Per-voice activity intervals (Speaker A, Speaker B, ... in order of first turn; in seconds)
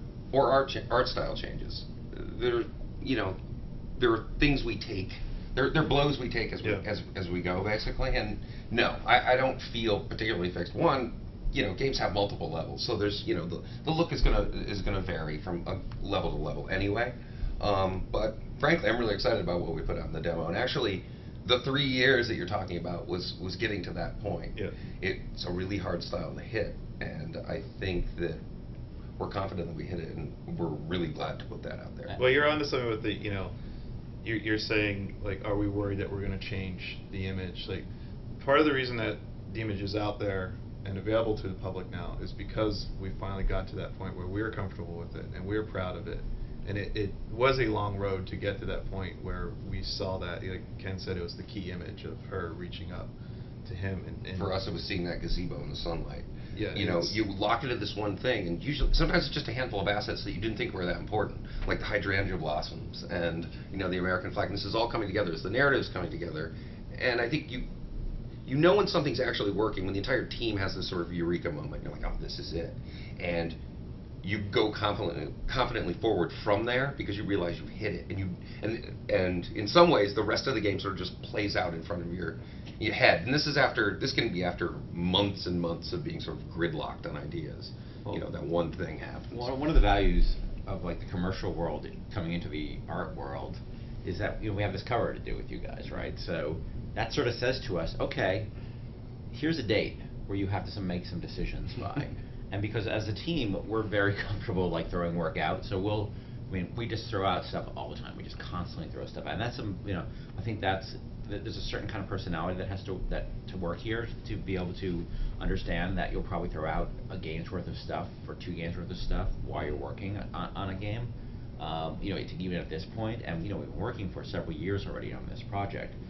Speaker A: 0.3-3.4, 4.0-28.4, 29.2-32.2, 54.3-67.6, 68.5-73.5, 74.2-89.5
Speaker B: 32.2-33.5, 34.2-37.9, 38.4-53.1, 53.6-54.5, 56.5-57.2
Speaker C: 89.3-98.5, 99.3-126.0